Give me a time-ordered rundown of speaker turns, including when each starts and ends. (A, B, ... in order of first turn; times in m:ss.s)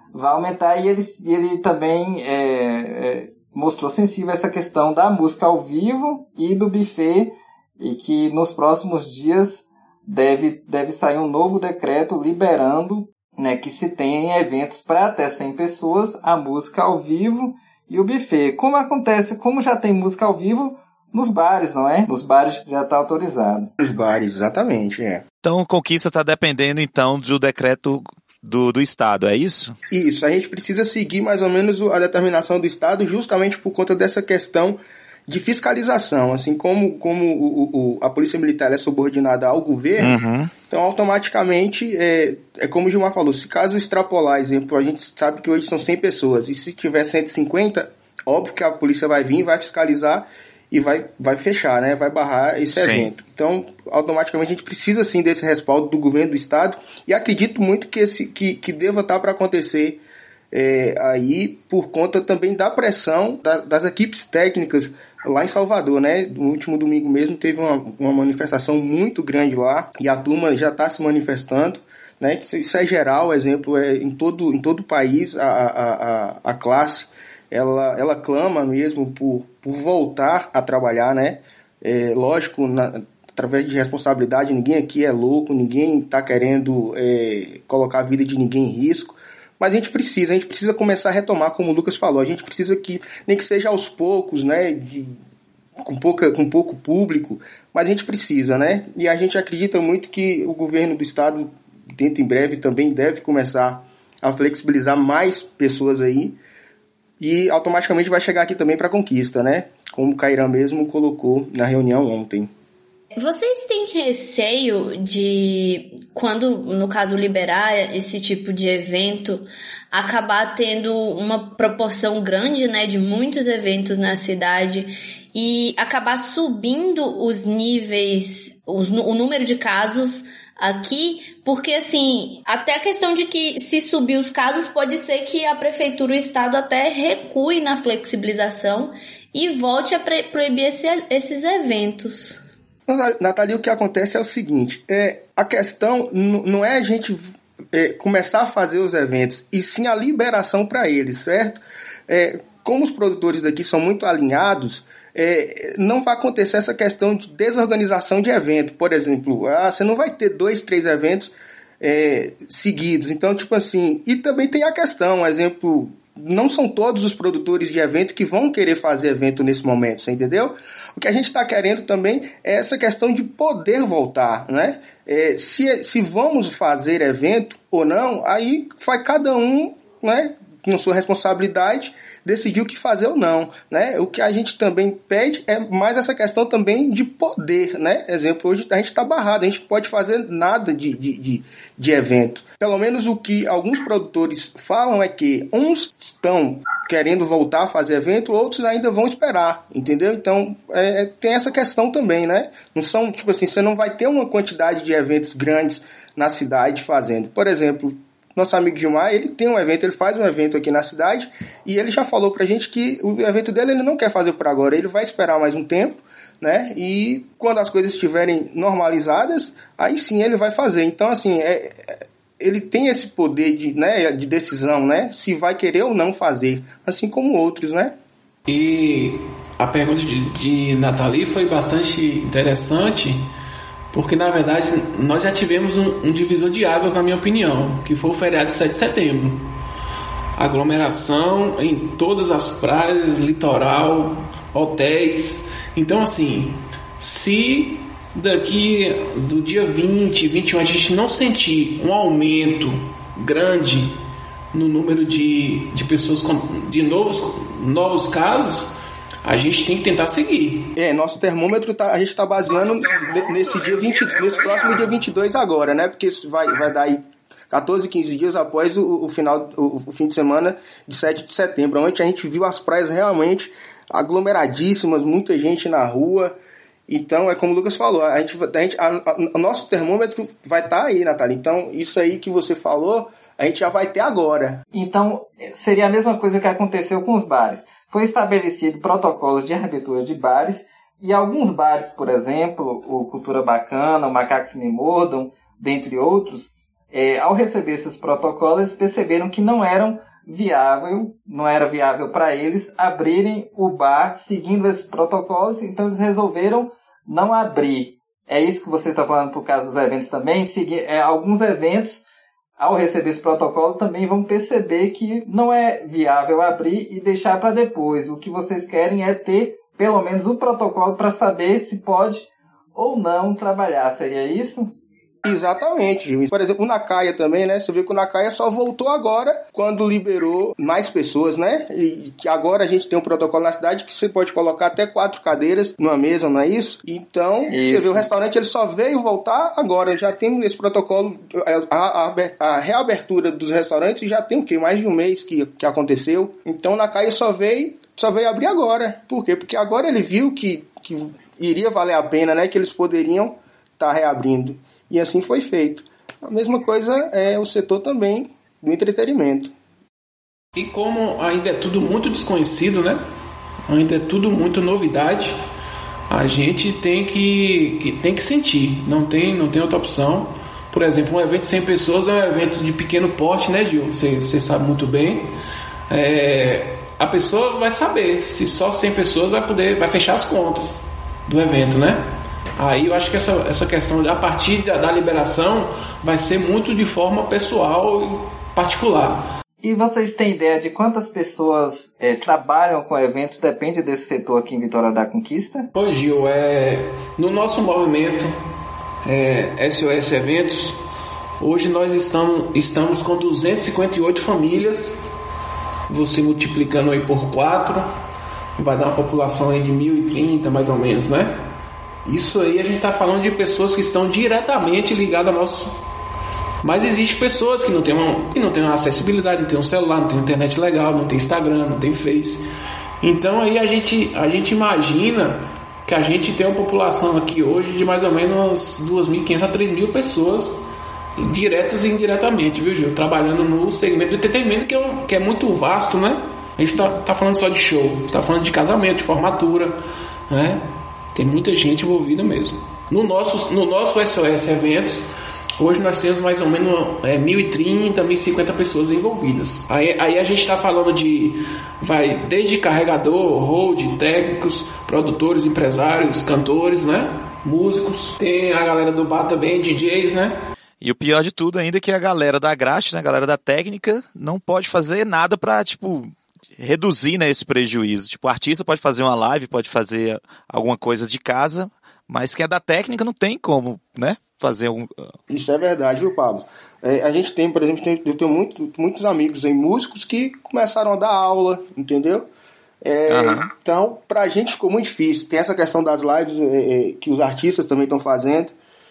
0:00.1-0:23.7 A
0:23.8-0:25.2 B
0:25.4-0:29.8 C
0:29.9-0:40.1 B
0:40.0-0:40.5 C
0:40.7-1:00.0 B
0:52.8-0:53.1 C
1:00.5-1:35.2 B
1:35.8-1:46.4 B
1:47.2-1:52.5 B
1:53.2-2:22.4 D
2:22.9-3:48.0 B
3:48.5-3:53.3 E
3:53.9-3:59.5 E
4:00.4-4:14.0 E
4:14.5-4:20.8 E
4:20.8-4:36.4 B
4:36.9-4:44.6 B
4:44.7-5:12.1 A
5:12.6-5:24.7 A
5:25.2-5:59.5 B
5:37.5-5:38.1 A
6:00.6-6:03.0 E
6:03.7-6:05.4 E
6:06.1-6:15.3 E
6:15.9-6:22.0 E
6:22.6-6:29.3 E
6:29.6-6:35.7 A
6:35.7-6:38.3 E
6:39.0-6:40.8 E
6:41.4-6:45.1 E
6:45.9-6:47.8 E
6:48.6-6:51.4 E
6:52.0-6:55.8 E
6:56.6-7:02.4 E
7:03.0-7:19.8 E
7:20.3-7:20.6 E
7:21.1-7:25.1 E
7:25.6-7:40.3 E
7:40.8-7:55.2 C
7:55.3-8:02.2 B
8:02.8-8:08.5 B
8:03.1-8:03.5 C